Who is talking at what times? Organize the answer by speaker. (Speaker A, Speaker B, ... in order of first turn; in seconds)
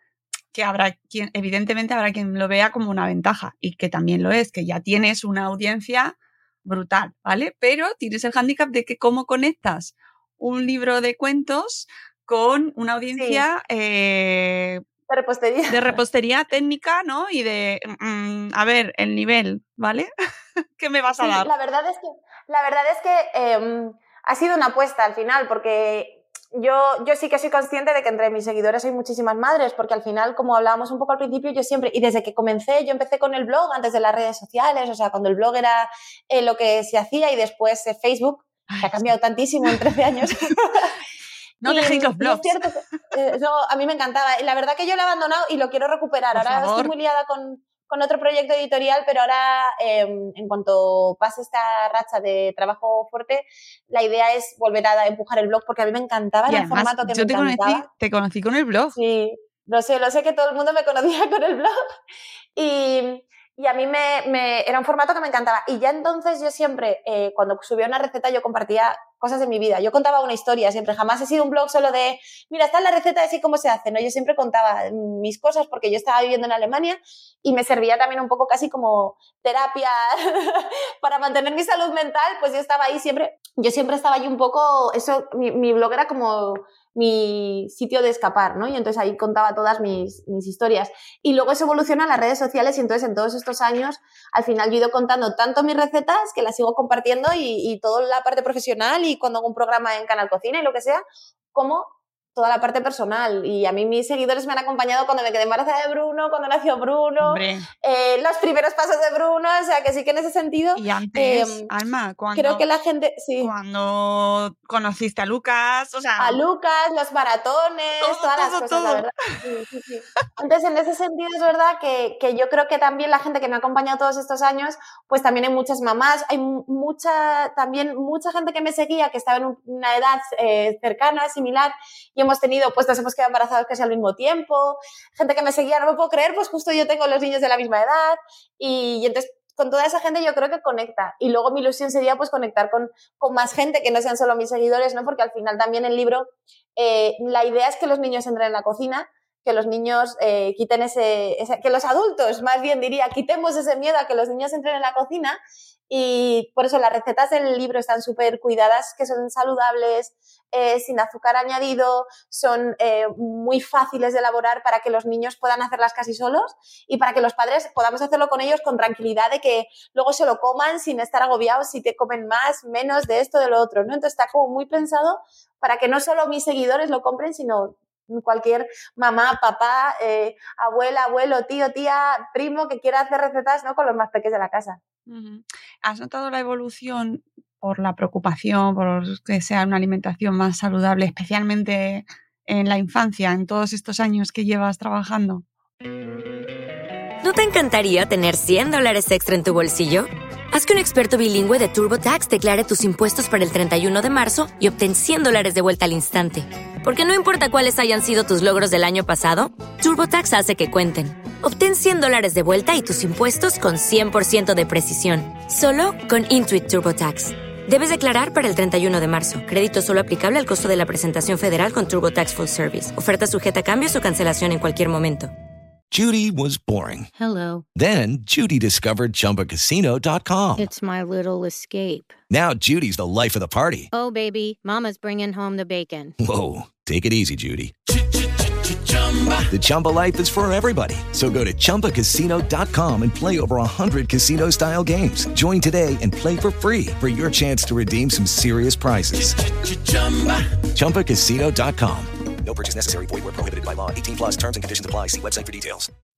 Speaker A: 0.5-14.8, 15.7-20.1, 20.8-21.5, 41.6-42.5, 46.3-46.9, 56.5-59.0, 107.2-107.7, 110.8-112.6, 113.4-116.4, 118.0-119.1, 185.1-195.4
Speaker B: 13.1-13.4, 15.1-16.0, 21.1-40.9, 41.6-57.9, 58.9-61.7, 62.5-111.7, 112.3-113.5, 116.2-155.4, 155.9-184.8
Speaker C: 197.2-225.3
Speaker D: 225.9-227.1, 227.7-230.6, 232.3-233.9, 236.2-237.7, 239.5-249.6, 250.2-255.9
Speaker E: 227.1-227.6, 230.6-232.1, 233.9-236.1